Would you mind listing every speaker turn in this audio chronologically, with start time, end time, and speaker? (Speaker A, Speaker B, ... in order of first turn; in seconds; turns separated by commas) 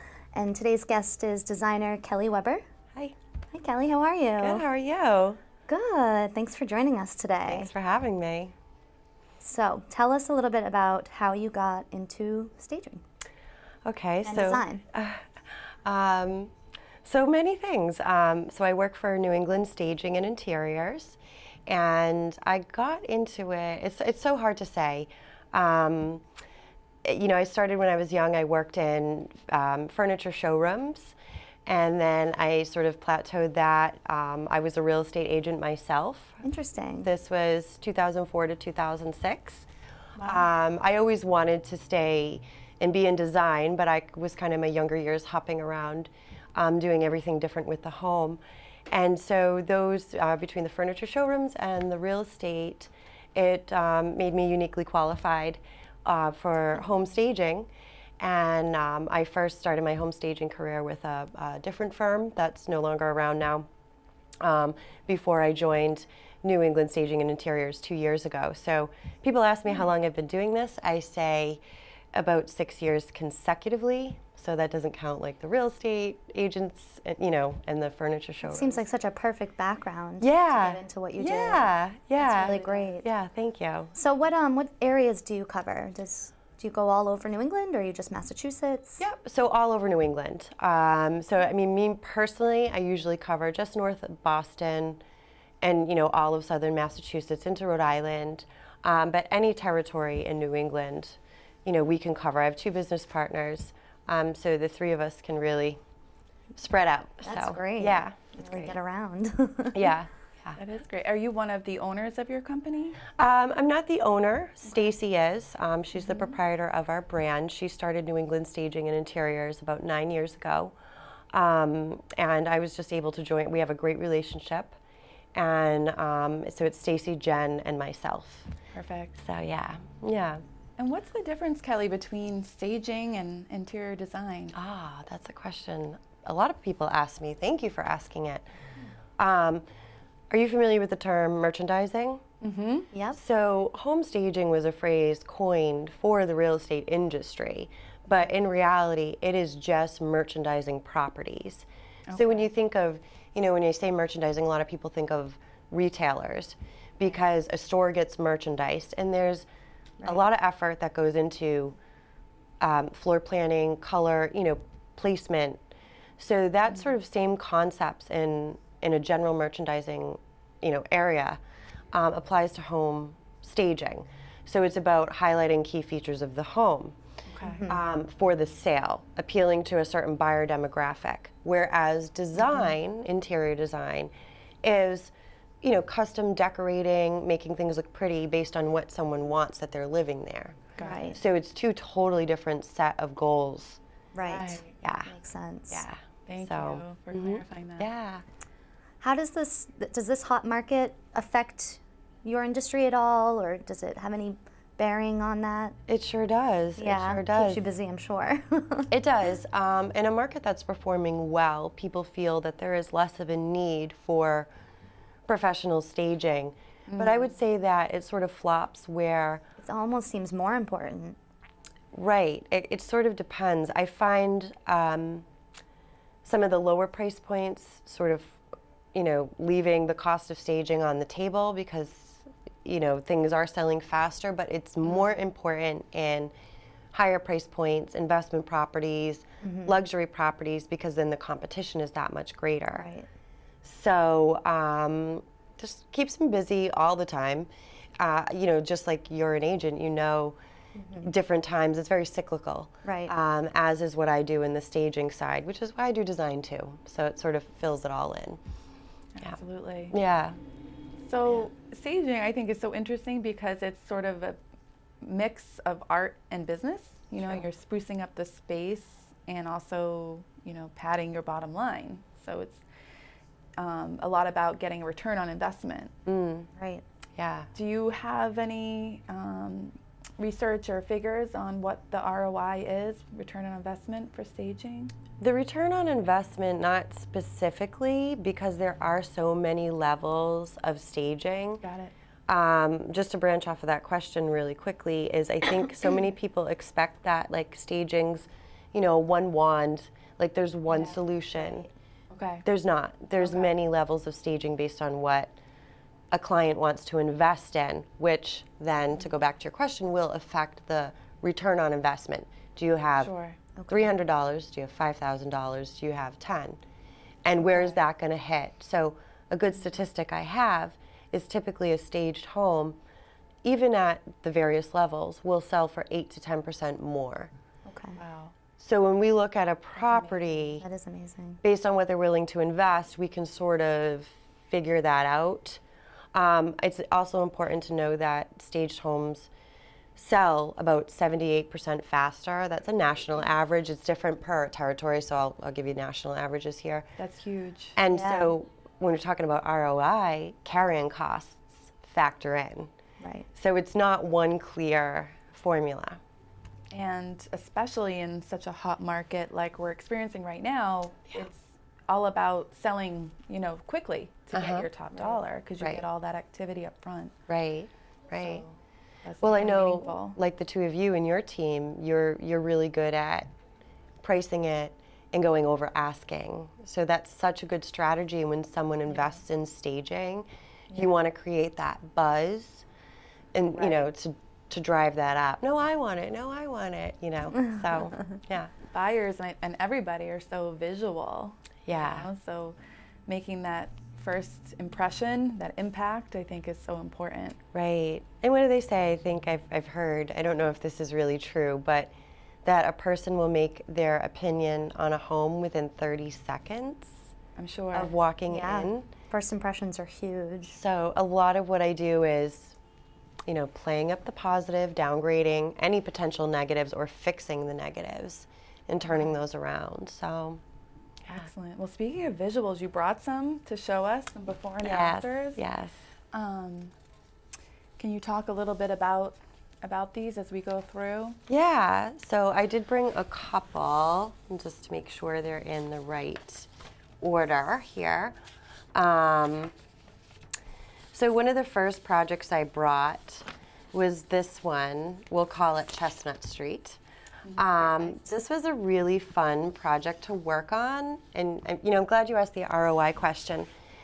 Speaker A: 0.3-2.6, Speaker A: 3.5-4.6, Speaker B: 4.4-5.4, Speaker A: 5.7-7.7, Speaker B: 7.5-8.5, Speaker A: 9.4-13.0, Speaker B: 13.8-16.5, Speaker A: 14.2-14.8, Speaker B: 17.0-26.2, Speaker B: 27.0-31.1, Speaker B: 31.6-36.4, Speaker A: 36.4-37.1, Speaker B: 37.0-39.7, Speaker B: 40.2-57.7, Speaker B: 58.2-63.7, Speaker B: 64.4-71.6, Speaker B: 72.1-78.8, Speaker A: 78.4-83.1, Speaker B: 80.2-83.9, Speaker C: 82.3-82.9, Speaker A: 84.0-89.0, Speaker B: 89.0-95.0, Speaker B: 95.6-105.8, Speaker B: 106.5-108.7, Speaker A: 107.2-109.9, Speaker B: 109.7-110.6, Speaker C: 110.6-113.0, Speaker B: 113.1-120.7, Speaker B: 121.3-124.8, Speaker B: 125.3-128.5, Speaker C: 128.7-129.2, Speaker B: 129.2-130.4, Speaker C: 130.8-134.5, Speaker B: 134.5-138.4, Speaker B: 139.2-139.6, Speaker B: 140.3-142.2, Speaker C: 142.4-142.9, Speaker A: 142.9-143.2, Speaker B: 143.2-159.5, Speaker C: 152.1-152.5, Speaker B: 160.0-161.8, Speaker B: 162.6-165.6, Speaker B: 166.2-171.4, Speaker B: 171.9-176.9, Speaker C: 177.3-177.6, Speaker A: 177.4-177.8, Speaker B: 177.7-184.1, Speaker B: 184.6-195.1, Speaker C: 190.8-191.1, Speaker A: 190.8-191.2, Speaker A: 194.1-195.8, Speaker C: 194.3-194.7, Speaker B: 195.7-198.2, Speaker C: 196.3-197.9, Speaker A: 199.0-205.8, Speaker B: 205.9-207.6, Speaker A: 206.8-208.9, Speaker B: 208.9-214.5, Speaker B: 215.3-219.4, Speaker C: 216.9-217.3, Speaker A: 219.6-221.2, Speaker B: 221.9-225.3, Speaker B: 226.2-228.4, Speaker B: 228.9-236.3, Speaker B: 236.9-242.9, Speaker A: 239.4-239.7, Speaker A: 242.7-243.1, Speaker B: 243.6-247.5, Speaker B: 248.0-250.4, Speaker A: 250.8-251.1, Speaker B: 251.0-258.4, Speaker A: 252.8-253.1, Speaker C: 259.1-259.9, Speaker B: 259.9-260.4, Speaker C: 261.0-264.4, Speaker C: 265.0-272.6, Speaker C: 273.6-275.9, Speaker B: 276.1-276.5, Speaker A: 276.5-276.8, Speaker B: 277.1-277.5, Speaker C: 277.5-284.9, Speaker B: 285.2-291.6, Speaker C: 291.6-291.9, Speaker B: 292.3-301.7, Speaker A: 300.8-301.6, Speaker C: 302.1-302.4, Speaker B: 302.4-305.3, Speaker C: 303.2-303.5, Speaker B: 306.1-313.1, Speaker C: 313.0-313.4, Speaker A: 313.6-313.8, Speaker B: 313.7-316.6, Speaker B: 317.2-322.8, Speaker B: 323.4-327.3, Speaker A: 327.7-328.0, Speaker C: 328.0-328.3, Speaker B: 328.6-330.6, Speaker C: 329.8-330.6, Speaker A: 330.6-331.4, Speaker B: 331.4-335.6, Speaker B: 336.1-339.3, Speaker B: 339.9-346.9, Speaker C: 347.0-347.8, Speaker B: 347.8-352.7, Speaker A: 347.9-348.3, Speaker A: 353.0-353.3, Speaker B: 353.3-356.0, Speaker C: 356.7-367.1, Speaker B: 364.3-364.7, Speaker B: 367.3-368.4, Speaker C: 368.2-370.2, Speaker B: 369.2-373.3, Speaker B: 374.0-382.6, Speaker B: 383.3-388.5, Speaker C: 383.6-383.9, Speaker C: 388.7-397.4, Speaker B: 391.6-392.1, Speaker B: 397.5-401.9, Speaker B: 402.4-407.1, Speaker C: 407.4-407.9, Speaker B: 407.7-408.9, Speaker A: 408.3-410.6, Speaker B: 410.5-412.6, Speaker B: 413.3-420.4, Speaker C: 421.1-425.4, Speaker B: 424.6-425.8, Speaker C: 426.1-426.7, Speaker C: 427.8-431.2, Speaker B: 431.3-436.5, Speaker B: 437.0-438.1, Speaker B: 438.7-439.5, Speaker B: 440.9-446.8, Speaker C: 447.2-447.9, Speaker B: 447.3-453.5